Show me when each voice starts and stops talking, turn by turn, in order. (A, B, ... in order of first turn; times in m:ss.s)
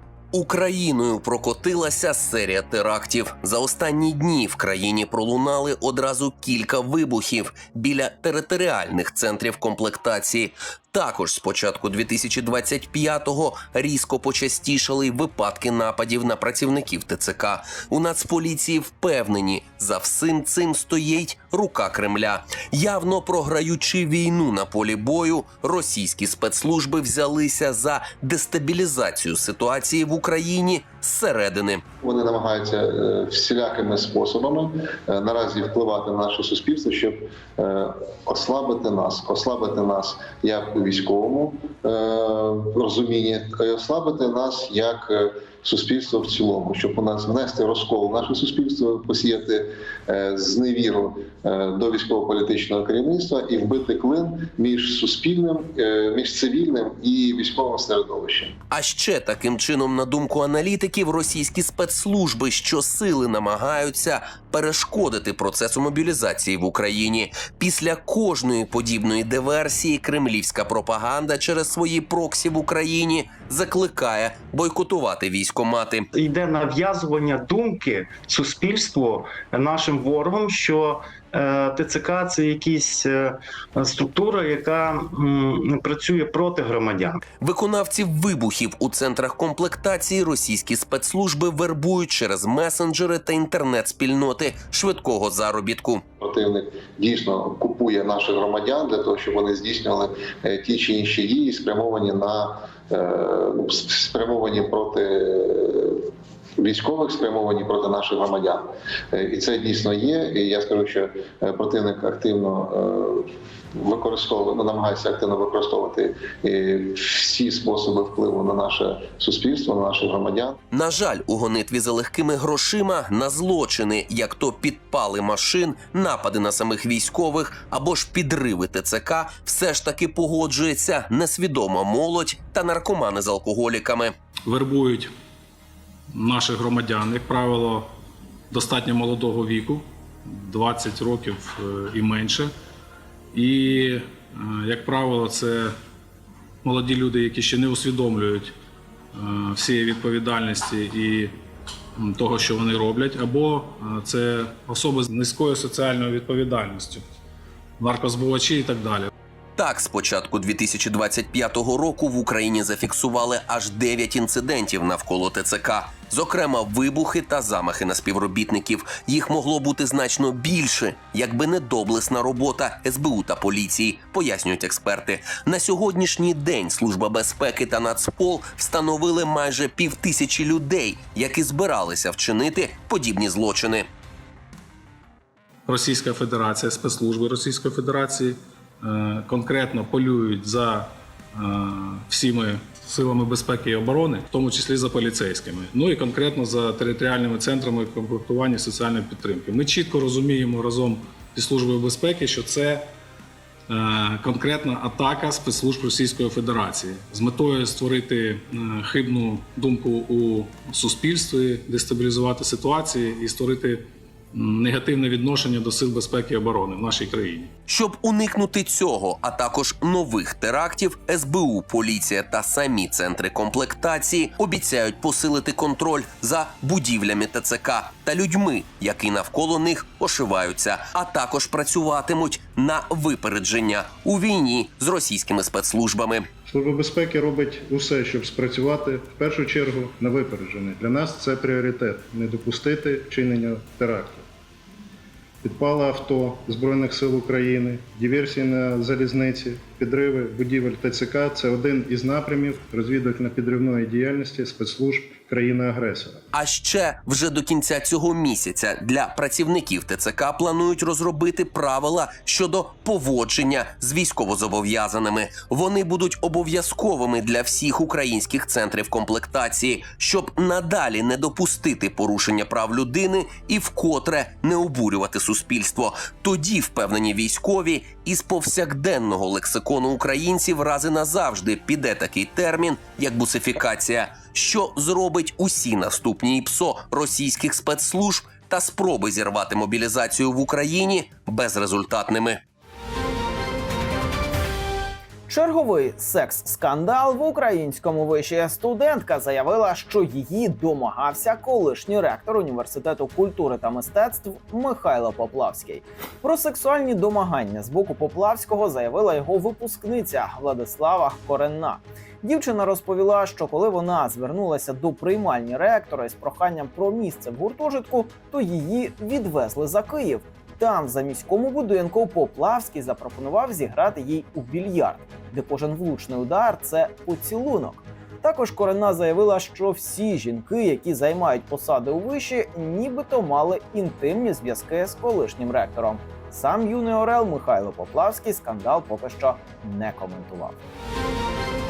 0:00.3-0:31.8 A
0:32.0-0:58.5 B
0:58.7-1:16.0 A
1:16.2-1:27.2 C
1:27.4-1:36.0 A
1:36.2-1:46.1 B
1:46.6-2:00.6 B
2:00.7-2:14.1 A
2:14.5-2:15.1 D
2:16.1-2:17.9 D
2:18.5-2:22.5 D
2:23.3-2:25.7 D
2:26.6-2:28.5 D
2:29.1-2:31.3 D
2:32.0-2:37.0 D
2:37.8-2:39.1 D
2:39.6-3:03.9 A
3:05.7-3:22.8 D
3:23.7-3:37.5 D
3:37.7-3:56.3 A
3:56.5-4:04.2 E
4:05.4-4:16.2 E
4:16.3-4:52.4 A
4:55.3-5:40.6 F